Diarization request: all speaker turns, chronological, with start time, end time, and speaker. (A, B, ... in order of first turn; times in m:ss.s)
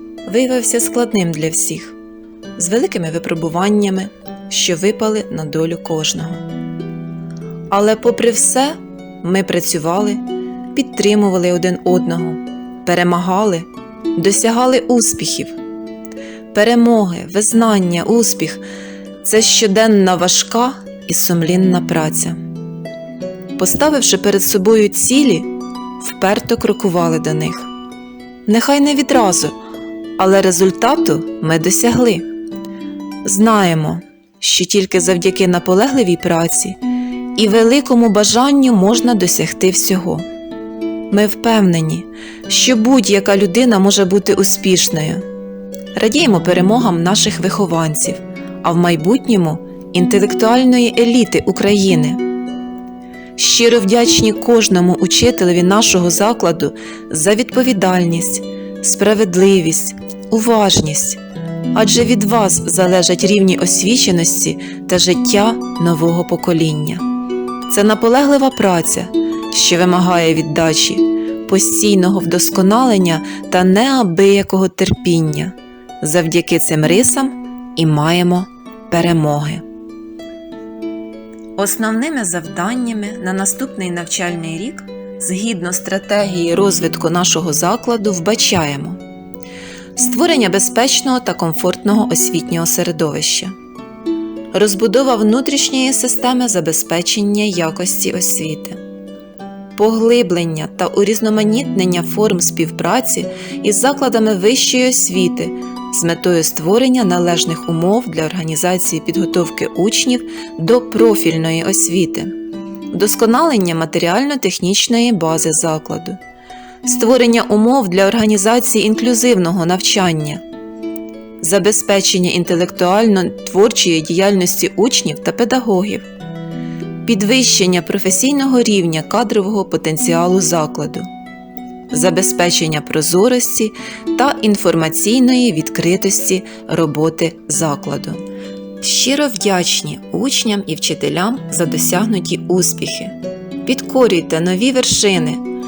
0:00.2-0:02.0 A
0:02.6-0:06.4 A
0:07.7-0:15.6 A
0:16.5-0:18.6 A
0:19.2-0:22.4 A
0:23.6-0:25.5 A
0:26.0-0:27.7 A
0:28.5-0:29.5 A
0:30.2-0:32.3 A
0:33.2-0:36.8 A
0:37.4-0:40.2 A
0:41.1-0:45.2 A
0:46.0-0:52.2 A
0:53.4-1:01.2 A
1:01.7-1:07.0 A
1:07.7-1:19.6 A
1:21.6-1:29.0 A
1:30.0-1:33.5 A
1:34.5-1:38.8 A
1:39.8-1:52.3 A
1:52.9-1:56.2 A
1:56.8-2:00.4 A
2:01.4-2:06.0 A
2:07.0-2:11.1 A
2:11.9-2:18.2 A
2:18.8-2:25.4 A